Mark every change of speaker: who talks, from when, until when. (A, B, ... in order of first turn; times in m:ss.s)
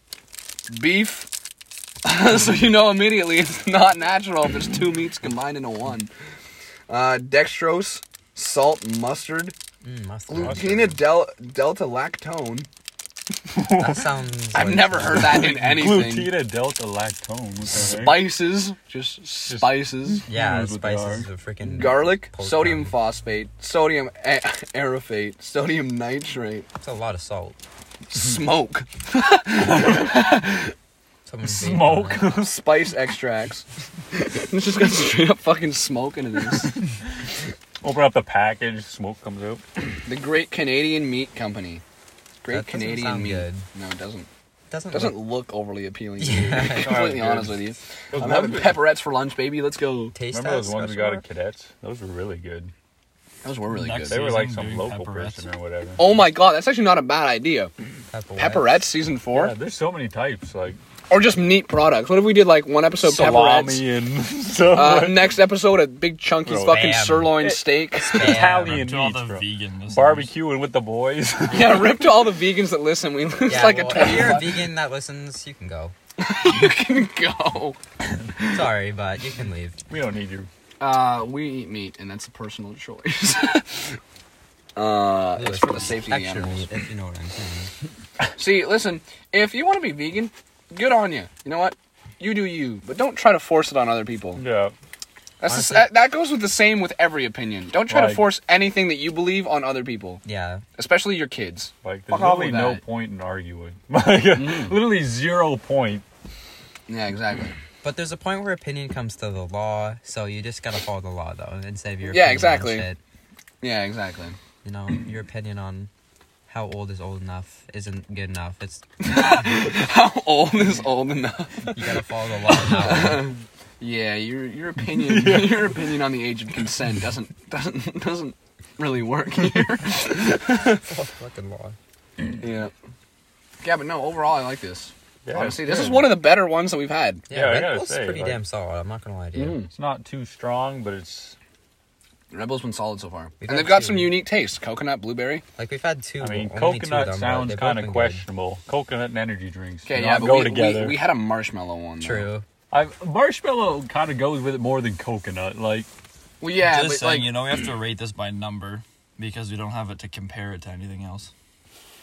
0:00.7-0:01.3 A
0:02.0-0:06.1 A
0:06.9-0:09.5 A
0:09.8-0:11.0 B
0:10.3-0:12.7 A
0:10.4-0:10.8 C
0:13.5-0:14.1 C
0:13.8-0:15.5 B
0:14.5-0:16.3 A
0:15.0-0:18.3 C
0:17.7-0:20.3 A
0:19.5-0:21.3 C
0:20.3-0:23.0 B
0:21.6-0:26.6 A
0:26.8-0:27.6 B
0:28.1-0:30.7 A
0:31.2-0:32.2 B
0:31.4-0:32.5 C
0:32.3-0:36.7 A
0:37.8-0:39.6 C
0:40.0-0:41.8 A
0:42.4-0:44.3 A
0:42.5-0:43.7 B
0:44.7-0:45.2 B
0:44.9-0:50.1 A
0:46.2-0:47.0 B
0:46.7-0:48.8 C
0:50.1-0:51.2 B
0:50.3-0:52.7 C
0:53.4-0:54.2 A
0:53.7-0:55.5 D
0:54.1-0:56.1 C
0:56.0-0:57.7 A
0:58.1-0:58.8 B
0:58.4-0:59.5 A
0:59.3-1:00.8 C
1:01.1-1:03.8 A
1:03.0-1:05.3 C
1:04.7-1:08.2 A
1:06.4-1:12.1 C
1:06.6-1:07.4 B
1:07.9-1:08.8 B
1:08.3-1:10.3 D
1:11.5-1:14.6 A
1:13.4-1:15.9 B
1:14.0-1:14.4 C
1:16.2-1:17.8 A
1:18.5-1:19.8 B
1:19.9-1:20.5 C
1:20.8-1:24.0 A
1:24.8-1:26.7 A
1:25.3-1:27.7 B
1:28.4-1:34.4 A
1:34.3-1:34.7 C
1:35.4-1:40.2 A
1:35.4-1:35.9 B
1:37.9-1:38.3 C
1:40.2-1:40.6 B
1:40.8-1:42.8 A
1:41.8-1:46.0 C
1:44.3-1:44.8 A
1:46.9-1:47.5 A
1:47.8-1:53.0 B
1:52.1-1:52.9 A
1:53.6-1:54.4 A
1:54.6-1:55.9 B
1:56.5-1:58.8 B
1:59.0-2:01.8 A
2:01.7-2:03.2 B
2:02.7-2:10.8 A
2:04.9-2:05.8 C
2:10.9-2:11.8 B
2:12.4-2:12.7 A
2:13.6-2:17.2 A
2:15.2-2:16.2 C
2:17.3-2:19.6 B
2:17.3-2:18.4 C
2:19.4-2:19.7 A
2:19.7-2:21.4 C
2:22.3-2:25.4 A
2:23.4-2:24.2 B
2:25.6-2:28.2 B
2:26.2-2:31.0 C
2:29.8-2:32.3 A
2:32.0-2:32.4 B
2:32.7-2:35.9 C
2:36.4-2:37.3 A
2:36.6-2:41.3 D